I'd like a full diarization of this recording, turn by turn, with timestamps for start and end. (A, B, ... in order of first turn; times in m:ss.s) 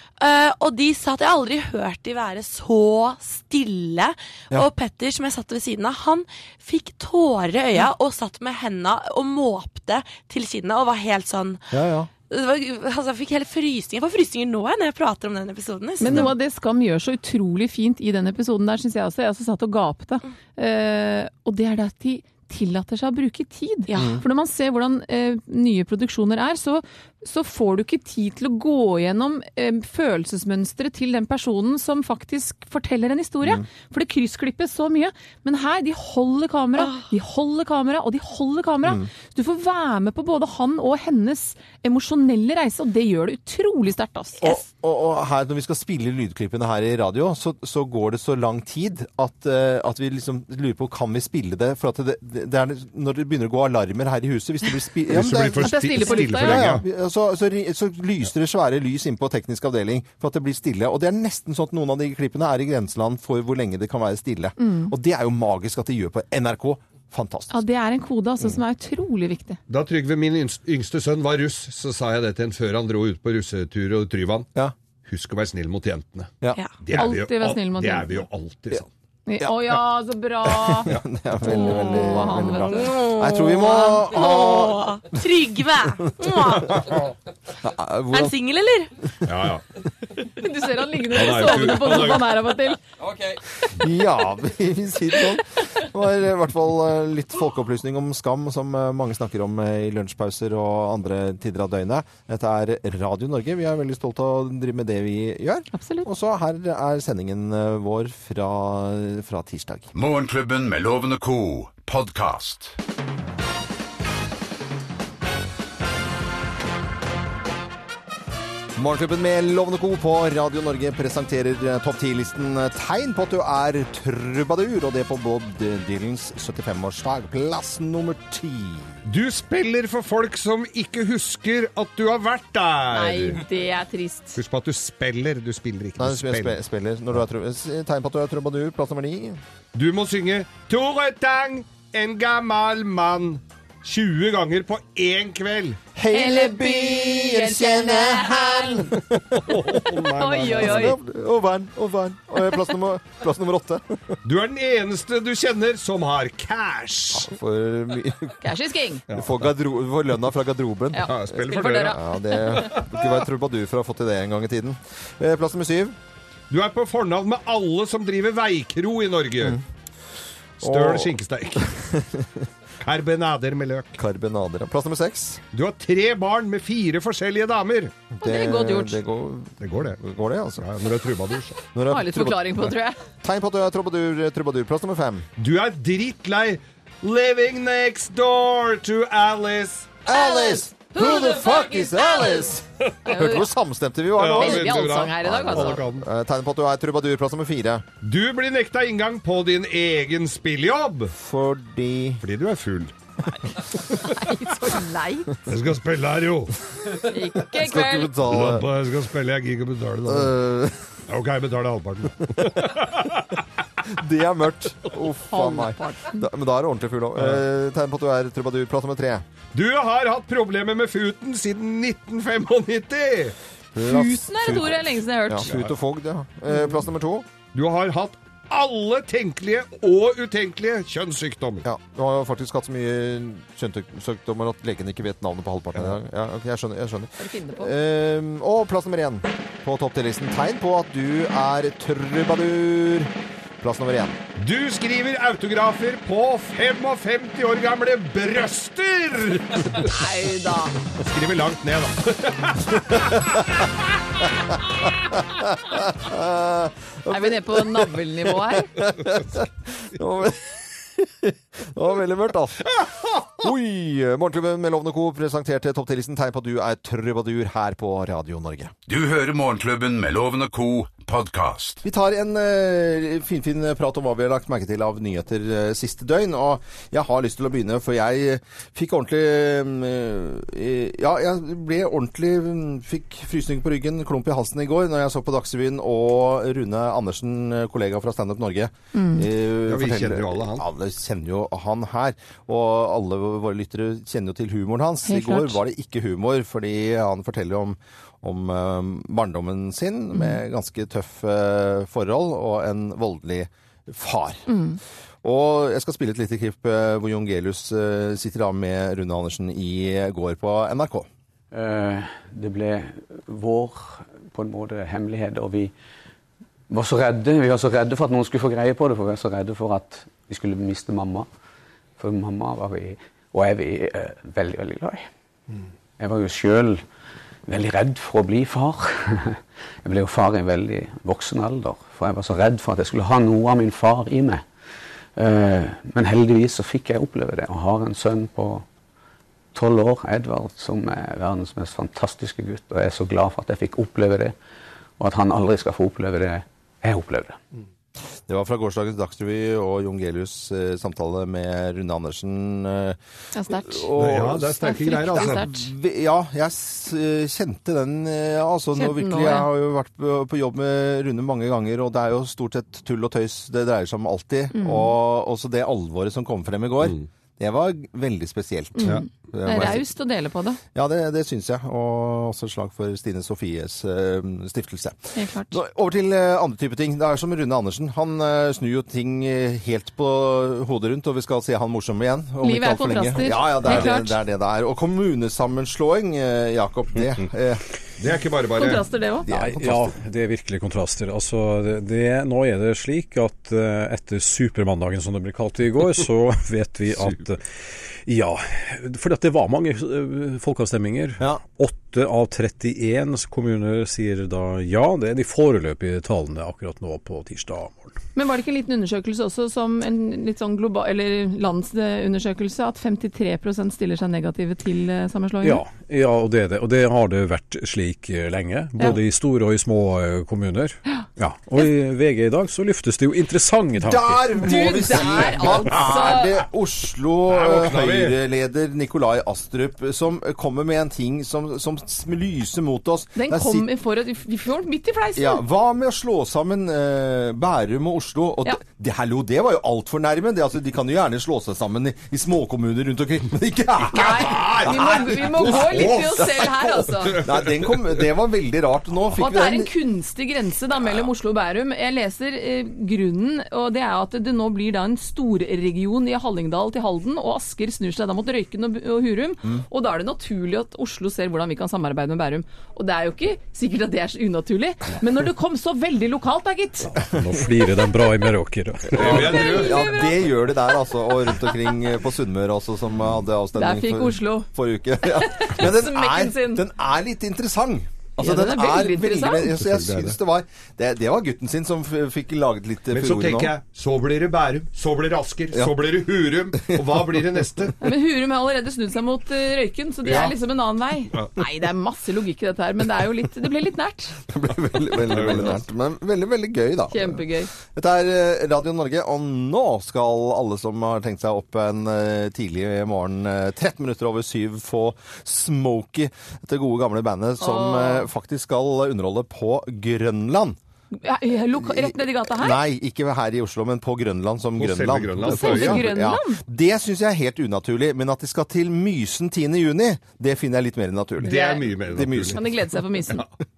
0:00.2-0:16.4 A
0:11.7-0:12.1 B
0:16.0-0:44.6 C
0:23.9-0:24.2 A
0:24.0-0:24.2 B
0:36.8-0:37.1 A
0:38.8-0:39.1 B
0:44.4-1:07.6 B
0:55.1-0:56.8 D
0:55.6-0:56.7 C
1:04.6-1:04.9 C
1:07.5-1:09.6 C
1:09.7-1:14.5 D
1:15.1-1:18.9 D
1:16.9-1:18.3 C
1:19.3-1:20.9 C
1:20.4-1:25.0 B
1:21.5-1:23.0 C
1:21.6-1:22.2 A
1:22.7-1:27.0 A
1:26.0-1:26.8 B
1:27.6-1:28.3 B
1:28.1-1:28.9 A
1:29.2-1:29.6 D
1:30.3-1:32.8 C
1:31.1-1:32.4 D
1:33.7-1:49.9 B
1:45.7-1:46.1 C
1:49.9-1:52.8 E
1:58.8-2:08.9 B
2:09.1-2:13.4 D
2:12.9-2:14.4 C
2:14.4-2:16.6 D
2:16.0-2:19.4 B
2:19.7-2:25.8 D
2:26.0-2:29.6 B
2:26.1-2:28.9 C
2:29.3-2:30.9 D
2:30.2-2:31.0 C
2:30.4-2:34.1 B
2:34.2-2:37.3 D
2:37.1-2:38.5 B
2:38.4-2:39.0 C
2:39.1-2:39.5 D
2:39.1-2:41.2 B
2:40.9-2:42.7 C
2:41.0-2:42.0 D
2:41.7-2:46.0 B
2:42.5-2:43.2 D
2:46.5-2:49.6 D
2:50.6-2:51.1 B
2:50.6-2:51.8 D
2:51.6-2:52.4 B
2:52.8-2:54.0 D
2:54.0-2:55.4 B
2:55.5-2:57.9 D
2:58.2-3:00.7 B
2:58.2-2:59.0 C
2:59.6-3:00.0 D
3:00.6-3:01.6 D
3:01.6-3:02.7 B
3:01.9-3:03.0 C
3:03.2-3:05.3 B
3:05.4-3:10.0 D
3:10.0-3:17.8 B
3:10.1-3:12.5 C
3:13.0-3:13.4 C
3:14.2-3:16.1 D
3:14.2-3:15.8 C
3:18.0-3:21.2 D
3:21.2-3:22.2 B
3:22.2-3:22.9 D
3:23.5-3:25.4 C
3:25.5-3:26.6 D
3:27.1-3:28.2 C
3:27.5-3:28.7 B
3:28.3-3:30.4 D
3:30.1-3:30.8 B
3:31.1-3:33.4 D
3:33.9-3:39.2 B
3:35.3-3:36.3 C
3:37.2-3:37.4 D
3:39.5-3:43.4 D
3:43.8-3:47.3 B
3:43.8-3:45.5 C
3:45.4-3:45.8 D
3:47.5-3:51.6 D
3:51.6-4:04.2 B
3:57.2-3:57.7 C
4:04.4-4:10.0 D
4:09.8-4:10.8 C
4:11.0-4:13.7 D
4:15.2-4:28.7 B
4:17.1-4:18.7 C
4:28.9-4:31.8 E
4:31.8-5:04.5 B
4:48.9-4:49.3 C
4:49.7-4:50.6 D
4:55.1-4:55.6 C
5:04.5-5:04.8 C
5:05.2-5:11.1 B
5:11.5-5:15.7 F
5:16.7-5:21.3 F
5:22.0-5:25.1 F
5:26.0-5:26.8 F
5:27.5-5:34.4 F
5:35.2-5:38.6 F
5:39.5-5:44.4 F
5:45.0-5:47.4 F
5:48.3-5:53.0 B
5:53.3-5:53.9 C
5:53.5-6:09.9 B
5:54.0-5:55.5 D
5:54.6-5:55.6 C
5:58.8-5:59.5 C
6:04.5-6:05.0 C
6:08.8-6:10.6 C
6:10.7-6:27.6 B
6:15.2-6:15.6 C
6:22.4-6:24.2 C
6:28.0-6:28.8 D
6:28.6-6:29.3 C
6:29.3-6:30.0 B
6:29.3-6:37.4 G
6:38.1-6:48.0 G
6:48.2-6:55.6 C
6:55.4-7:04.3 G
7:03.8-7:13.7 B
7:04.4-7:06.4 C
7:07.3-7:08.2 D
7:13.2-7:15.4 C
7:15.2-7:29.7 B
7:23.9-7:27.2 C
7:24.0-7:28.0 D
7:29.1-7:46.9 C
7:46.9-7:49.3 G
7:49.0-7:49.9 D
7:49.0-8:03.5 B
7:49.0-7:51.3 C
7:53.6-7:54.5 C
7:55.0-7:56.6 C
7:58.2-7:59.5 C
7:59.5-8:00.2 D
8:02.9-8:07.8 D
8:06.7-8:07.0 B
8:07.8-8:14.2 C
8:10.1-8:10.3 D
8:14.3-8:30.6 B
8:15.1-8:15.6 D
8:16.9-8:17.5 C
8:27.4-8:28.1 C
8:31.0-8:32.6 C
8:31.6-8:42.4 B
8:34.6-8:35.9 D
8:35.3-8:36.4 C
8:41.2-8:41.7 C
8:41.2-8:42.4 D
8:42.3-8:43.2 C